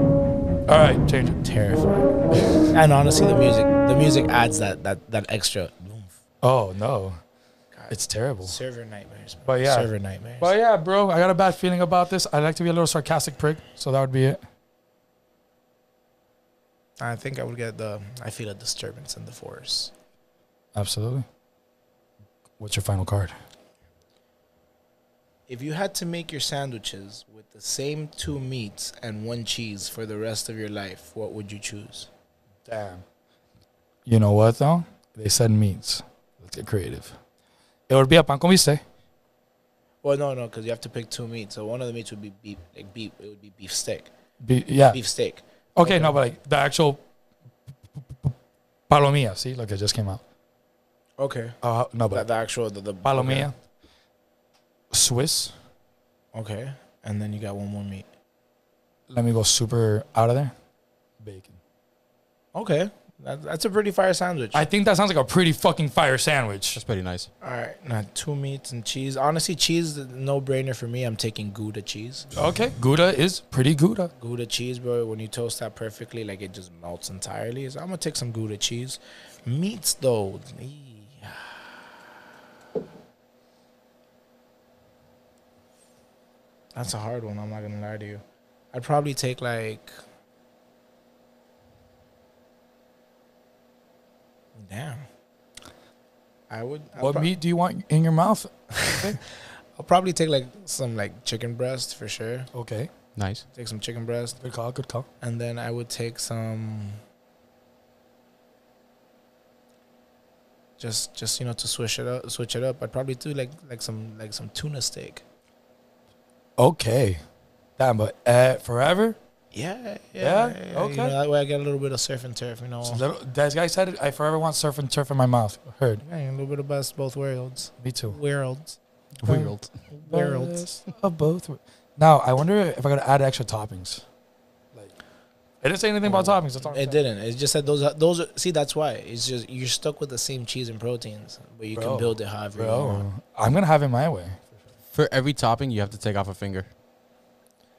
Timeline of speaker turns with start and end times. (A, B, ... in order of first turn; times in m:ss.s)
0:00.7-0:01.4 A
0:01.4-0:06.2 B
0:02.3-0:02.7 A
0:06.4-0:07.2 A
0:07.7-0:10.5 B
0:07.9-0:08.6 A
0:09.4-0:14.4 A
0:17.0-0:19.9 B
0:20.7-0:21.3 A
0:22.6-0:23.3 A
0:25.5-0:32.1 B
0:32.7-0:33.0 A
0:34.1-0:37.2 A
0:37.9-0:38.8 A
0:40.0-0:44.1 B
0:44.4-0:45.0 A
0:44.9-0:46.2 B
0:45.8-0:47.0 A
0:48.9-0:50.2 A
0:51.2-0:51.6 B
0:51.6-0:52.3 A
0:52.1-0:53.5 B
0:53.0-0:53.6 A
0:54.9-0:55.6 A
0:56.3-0:58.1 B
0:59.1-1:00.5 A
1:01.2-1:01.6 A
1:02.5-1:04.6 B
1:04.5-1:06.8 A
1:06.8-1:07.3 C
1:07.4-1:12.3 B
1:12.3-1:14.1 A
1:14.2-1:22.0 B
1:26.7-1:30.0 B
1:34.6-1:35.0 B
1:36.5-1:37.3 B
1:37.0-1:39.2 A
1:39.8-1:42.5 B
1:42.5-1:42.9 A
1:43.2-1:43.4 C
1:43.5-1:44.4 B
1:44.4-1:45.1 A
1:45.2-1:47.0 B
1:50.8-1:55.2 B
1:56.6-1:57.2 A
1:57.8-1:59.2 A
1:59.5-2:03.0 B
2:00.2-2:01.2 A
2:02.8-2:06.0 A
2:06.0-2:08.8 B
2:07.8-2:08.2 A
2:09.2-2:14.0 A
2:09.3-2:09.7 C
2:09.9-2:10.7 B
2:15.6-2:17.0 A
2:16.1-2:23.1 B
2:21.7-2:24.6 A
2:24.9-2:26.7 C